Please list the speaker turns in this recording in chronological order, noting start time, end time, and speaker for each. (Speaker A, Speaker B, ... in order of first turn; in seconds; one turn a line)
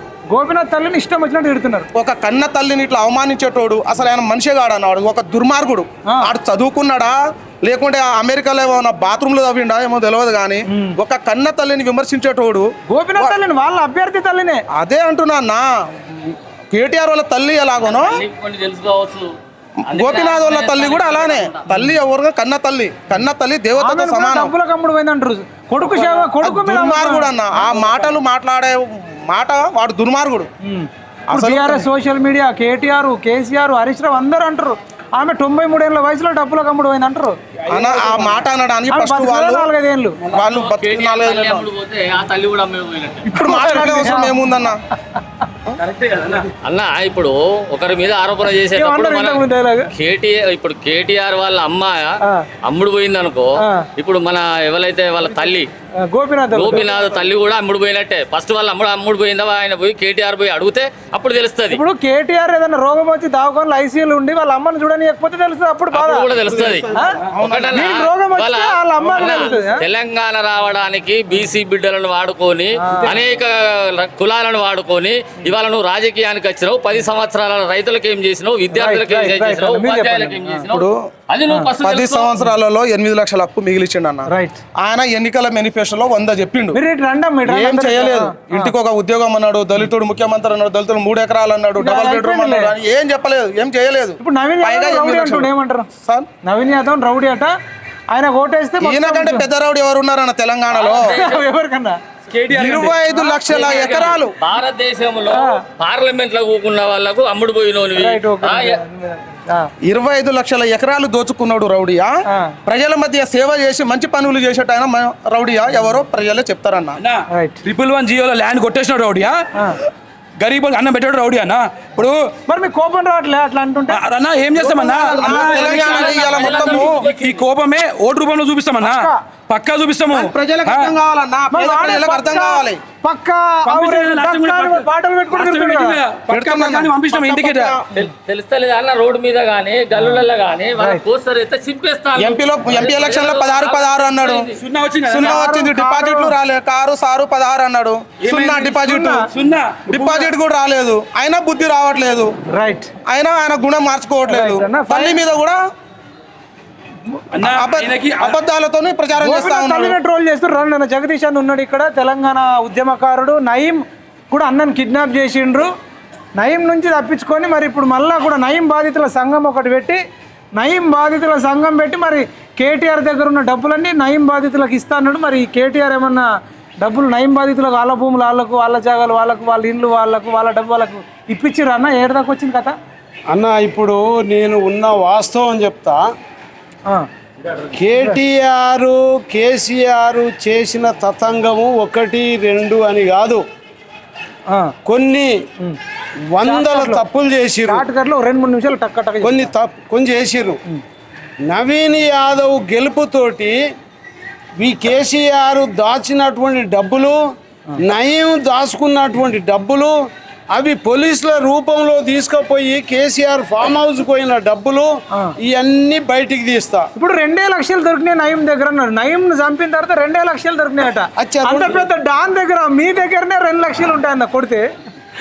Speaker A: 0.3-1.9
Speaker B: 1.9-13.3
Speaker A: 10.7-10.9
Speaker A: 12.9-14.6
Speaker B: 14.8-15.8
Speaker B: 16.7-18.2
Speaker C: 17.8-19.3
Speaker C: 19.9-21.7
Speaker B: 19.9-24.5
Speaker A: 23.8-28.1
Speaker B: 26.4-30.5
Speaker A: 30.6-37.4
Speaker B: 31.3-31.8
Speaker B: 37.7-39.7
Speaker D: 37.8-38.3
Speaker A: 38.9-40.2
Speaker B: 40.3-41.7
Speaker C: 40.5-43.4
Speaker A: 43.3-44.3
Speaker B: 43.3-44.8
Speaker D: 45.8-46.5
Speaker C: 46.6-49.4
Speaker A: 48.7-49.9
Speaker C: 49.9-52.1
Speaker C: 52.6-55.7
Speaker A: 53.6-53.9
Speaker A: 56.0-56.9
Speaker C: 56.5-61.8
Speaker B: 56.7-57.3
Speaker A: 61.7-66.3
Speaker C: 65.9-66.9
Speaker B: 66.5-67.8
Speaker A: 66.9-67.2
Speaker C: 67.4-82.3
Speaker A: 67.7-69.8
Speaker A: 72.8-73.2
Speaker A: 78.7-80.6
Speaker B: 80.7-81.0
Speaker B: 81.8-84.3
Speaker A: 84.3-84.6
Speaker B: 84.8-86.8
Speaker A: 86.7-88.7
Speaker B: 87.5-96.3
Speaker A: 91.8-92.7
Speaker A: 94.2-95.9
Speaker A: 96.4-97.5
Speaker A: 98.1-99.4
Speaker B: 98.8-101.2
Speaker C: 100.7-101.4
Speaker A: 101.1-103.3
Speaker B: 102.5-104.3
Speaker C: 103.4-108.7
Speaker A: 105.3-105.6
Speaker A: 107.9-109.7
Speaker B: 109.9-117.0
Speaker D: 117.0-119.4
Speaker A: 117.3-117.6
Speaker D: 120.4-122.2
Speaker A: 122.5-124.0
Speaker D: 123.9-130.9
Speaker B: 124.6-127.0
Speaker C: 125.4-127.3
Speaker A: 128.8-129.2
Speaker B: 130.1-132.8
Speaker A: 131.5-136.0
Speaker D: 133.7-137.7
Speaker B: 136.3-137.9
Speaker C: 137.9-144.6
Speaker B: 142.2-144.5
Speaker D: 144.6-145.4
Speaker B: 145.1-149.2
Speaker A: 145.1-146.3
Speaker D: 148.2-150.3
Speaker A: 148.8-149.2
Speaker B: 149.9-152.3
Speaker A: 152.5-152.9
Speaker B: 153.1-155.6
Speaker A: 154.3-155.2
Speaker D: 157.3-158.4
Speaker B: 157.4-159.9
Speaker A: 159.2-165.7
Speaker A: 166.4-170.0
Speaker A: 170.6-176.3
Speaker A: 176.8-182.8
Speaker E: 183.3-186.0
Speaker E: 187.8-193.4
Speaker E: 194.8-195.3
Speaker E: 196.2-197.8
Speaker A: 196.4-197.0
Speaker A: 197.7-199.5
Speaker E: 199.2-200.6
Speaker E: 201.5-203.5
Speaker E: 204.6-207.2
Speaker E: 207.8-209.9
Speaker E: 210.5-214.9
Speaker E: 215.5-216.9
Speaker A: 216.9-224.7
Speaker E: 221.2-221.8